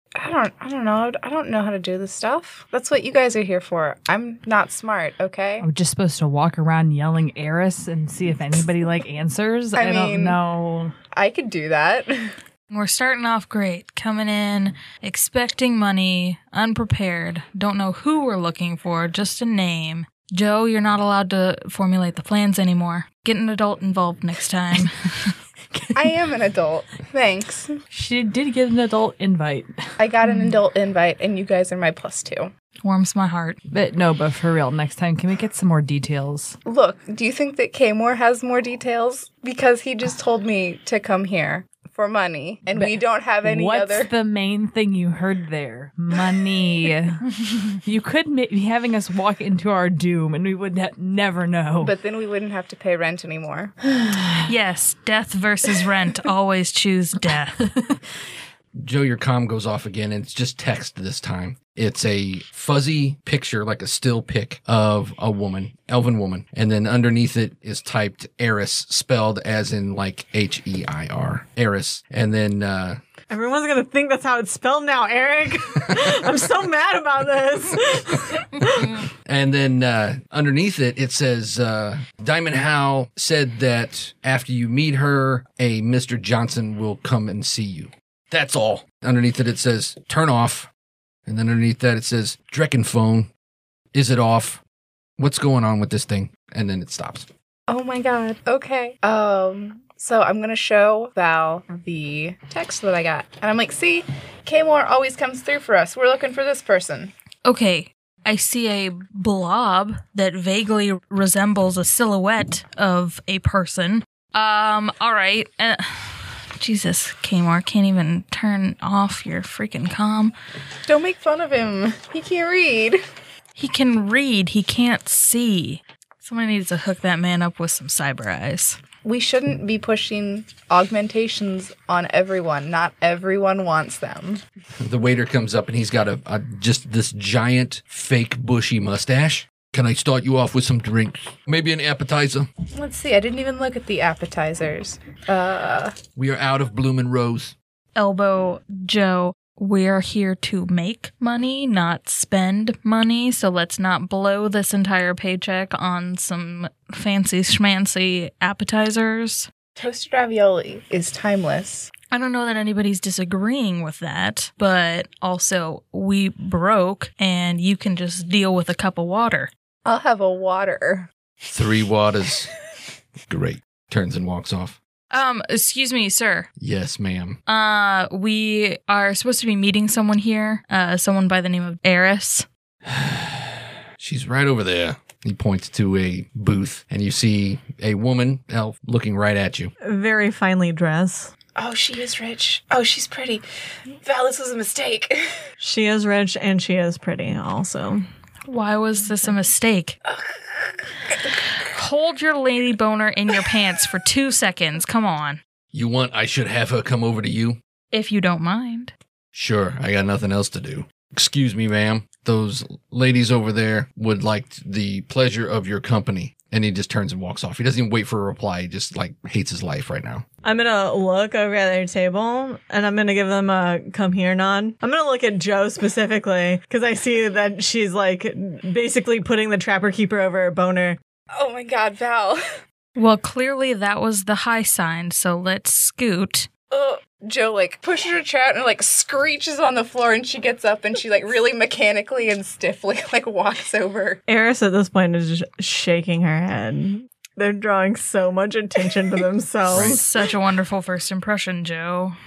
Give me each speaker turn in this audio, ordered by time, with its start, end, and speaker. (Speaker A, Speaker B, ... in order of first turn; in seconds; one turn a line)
Speaker A: 0.2-5.7
Speaker B: 5.6-10.9
Speaker A: 9.7-10.4
Speaker A: 11.1-12.3
Speaker C: 12.7-25.3
Speaker B: 25.7-26.0
Speaker A: 25.9-27.8
Speaker B: 27.9-29.7
Speaker A: 30.0-32.5
Speaker C: 32.8-33.6
Speaker B: 33.7-36.6
Speaker A: 36.6-44.1
Speaker B: 42.7-51.9
Speaker A: 51.8-53.7
Speaker B: 53.9-54.4
Speaker C: 54.4-57.7
Speaker B: 57.6-58.0
Speaker D: 58.8-73.0
Speaker E: 73.3-79.0
Speaker D: 79.0-90.7
Speaker D: 91.2-93.3
Speaker D: 93.9-94.6
Speaker D: 95.2-97.3
Speaker A: 97.7-107.1
Speaker C: 107.4-120.3
Speaker A: 120.9-123.0
Speaker C: 123.5-128.8
Speaker A: 129.0-134.4
Speaker D: 134.8-142.5
Speaker A: 142.7-145.9
Speaker D: 146.2-147.5
Speaker C: 147.9-159.5
Speaker A: 159.8-161.9
Speaker C: 162.1-169.5
Speaker A: 169.8-171.1
Speaker D: 171.4-172.5
Speaker D: 173.3-174.8
Speaker C: 175.1-176.5
Speaker D: 176.6-177.4
Speaker C: 177.5-182.5
Speaker D: 182.8-189.7
Speaker E: 189.8-191.3
Speaker A: 191.6-193.4
Speaker A: 194.0-195.4
Speaker E: 195.6-198.0
Speaker C: 198.4-199.9
Speaker C: 201.5-205.4
Speaker D: 205.7-207.6
Speaker C: 207.9-208.9
Speaker D: 209.3-220.2
Speaker E: 220.4-231.0
Speaker A: 231.3-232.4
Speaker C: 232.9-236.5
Speaker A: 236.7-244.2
Speaker E: 244.3-250.1
Speaker C: 249.7-252.2
Speaker D: 249.7-250.0